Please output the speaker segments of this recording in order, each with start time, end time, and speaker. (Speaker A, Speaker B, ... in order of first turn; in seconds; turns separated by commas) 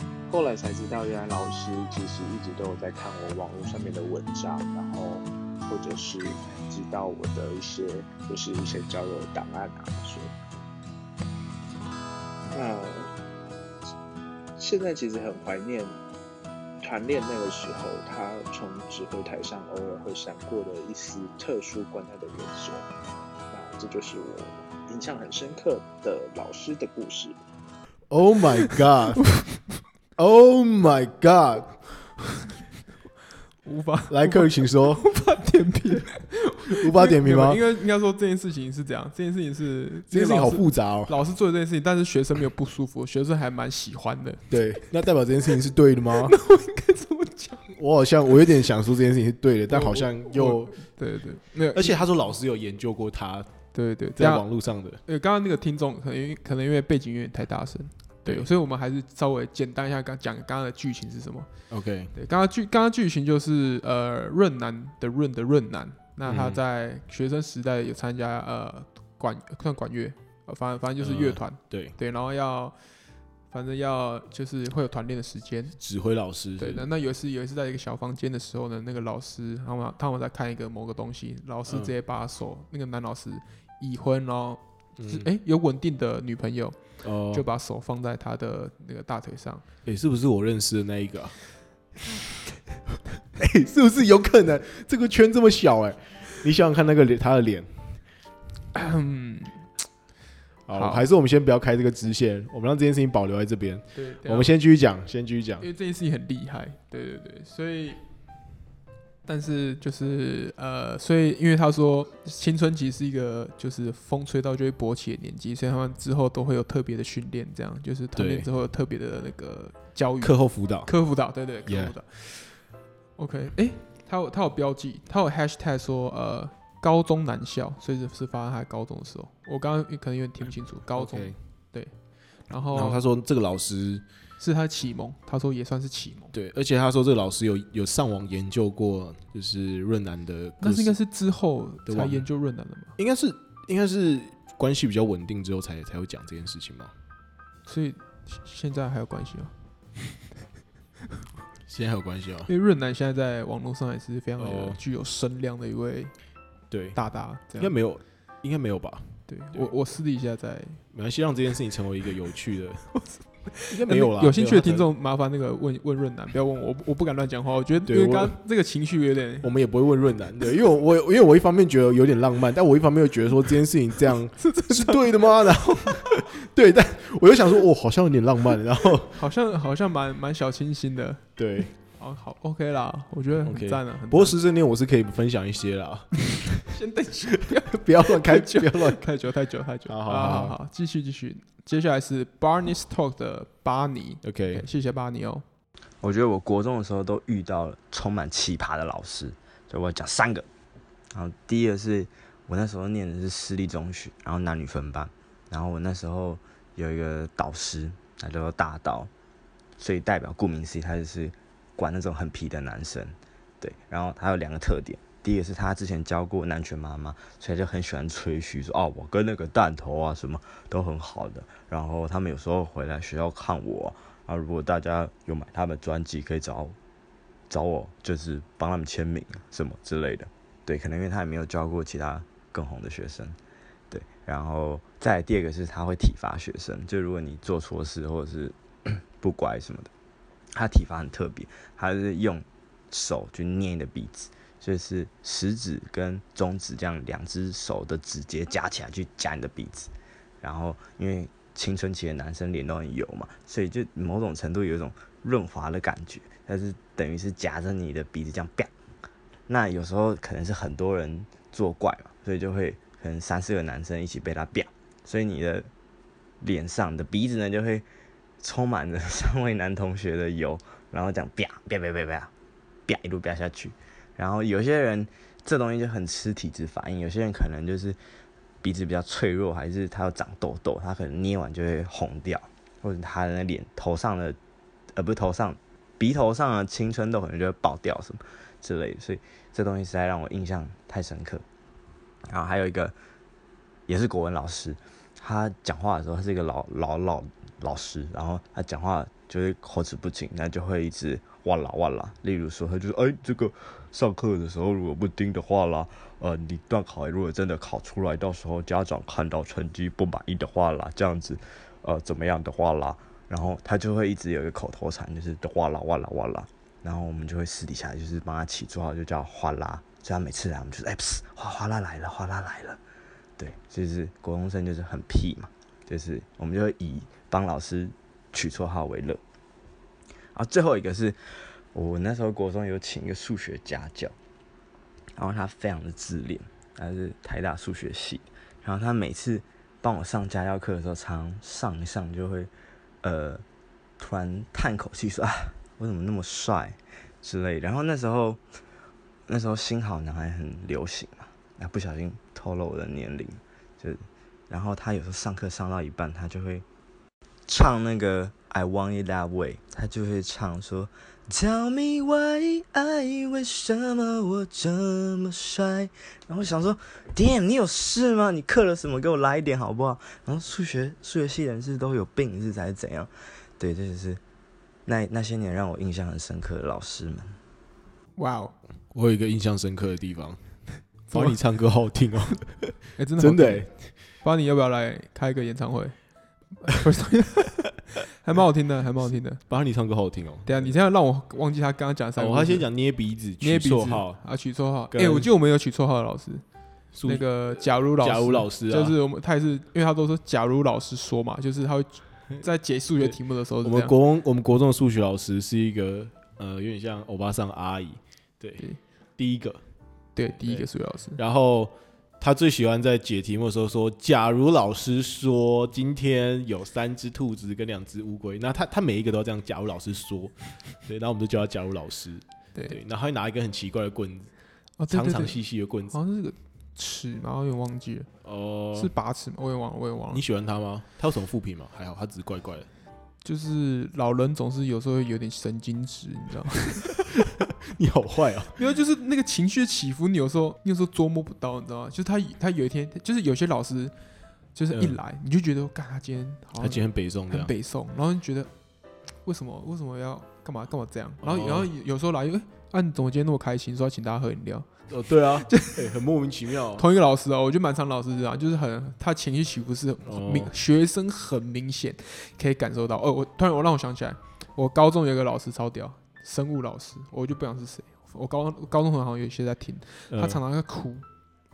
Speaker A: 0.3-10.3, Speaker A: 12.5-13.1, Speaker A: 14.6-15.9, Speaker A: 16.8-22.9, Speaker A: 23.5-27.4, Speaker B: 28.1-29.4, Speaker B: 30.2-32.2, Speaker C: 33.6-44.9, Speaker B: 34.1-35.1, Speaker B: 36.7-37.6, Speaker B: 40.1-41.2, Speaker B: 44.5-46.4, Speaker C: 46.2-47.7, Speaker B: 47.8-50.9, Speaker C: 49.7-52.0, Speaker B: 51.7-55.0, Speaker C: 53.7-75.8, Speaker B: 58.2-58.5, Speaker B: 61.7-62.2, Speaker B: 66.3-66.6, Speaker B: 71.0-72.0, Speaker B: 75.8-76.9, Speaker C: 76.4-89.7, Speaker B: 81.7-81.9, Speaker B: 85.0-85.3, Speaker B: 87.0-87.5, Speaker B: 89.8-91.5, Speaker B: 93.4-98.1, Speaker C: 98.8-99.8, Speaker B: 100.7-105.7, Speaker C: 100.7-101.1, Speaker C: 103.9-104.5, Speaker C: 105.6-108.1, Speaker C: 109.2-133.1, Speaker B: 118.2-118.5, Speaker B: 120.2-122.0, Speaker B: 130.9-131.4, Speaker B: 132.7-134.1, Speaker C: 134.4-136.3, Speaker B: 136.3-141.0, Speaker C: 140.6-142.9, Speaker B: 141.8-142.3, Speaker B: 143.0-146.9, Speaker C: 147.7-149.5, Speaker B: 151.7-152.5, Speaker C: 152.5-157.8, Speaker B: 154.4-154.8, Speaker B: 156.7-159.8, Speaker C: 159.3-160.8, Speaker B: 160.9-164.9, Speaker C: 163.1-169.5, Speaker B: 167.8-168.5, Speaker B: 169.4-179.2, Speaker C: 174.4-175.9, Speaker C: 179.2-184.4, Speaker B: 181.4-181.7, Speaker B: 183.4-186.7, Speaker C: 186.7-195.4, Speaker B: 187.7-189.1, Speaker B: 189.8-190.6, Speaker B: 194.2-194.7, Speaker D: 196.0-200.5, Speaker D: 201.1-209.1, Speaker D: 209.8-226.8, Speaker D: 227.5-233.4, Speaker D: 233.9-239.9, Speaker D: 240.6-249.9, Speaker D: 250.4-258.7, Speaker D: 259.5-265.7, Speaker D: 266.4-267.9, Speaker D: 268.4-272.3, Speaker D: 272.9-278.0, Speaker D: 278.6-284.4, Speaker D: 284.9-291.4, Speaker D: 292.3-292.9, Speaker D: 293.9-322.8, Speaker D: 323.4-329.2, Speaker D: 330.4-331.2, Speaker D: 331.7-334.1, Speaker D: 335.2-342.5, Speaker D: 343.0-343.4, Speaker D: 344.0-348.4, Speaker D: 349.3-356.6, Speaker D: 357.5-374.2, Speaker D: 374.9-377.4, Speaker C: 378.2-378.6, Speaker B: 378.9-383.9, Speaker C: 381.1-381.4, Speaker C: 383.0-389.5, Speaker B: 389.0-390.8, Speaker C: 390.4-396.4, Speaker B: 392.2-395.3, Speaker B: 396.9-399.0, Speaker C: 397.0-403.9, Speaker B: 403.0-409.6, Speaker C: 410.1-411.2, Speaker B: 410.3-426.0, Speaker C: 424.8-428.1, Speaker B: 428.2-428.9, Speaker C: 428.7-430.2, Speaker B: 430.1-432.7, Speaker C: 433.2-437.0, Speaker B: 437.7-438.6, Speaker C: 438.6-444.0, Speaker C: 444.5-454.7, Speaker B: 444.7-445.0, Speaker B: 446.6-447.5, Speaker B: 451.2-451.7, Speaker B: 454.9-456.9, Speaker C: 456.8-471.1, Speaker B: 460.1-460.5, Speaker B: 470.1-470.4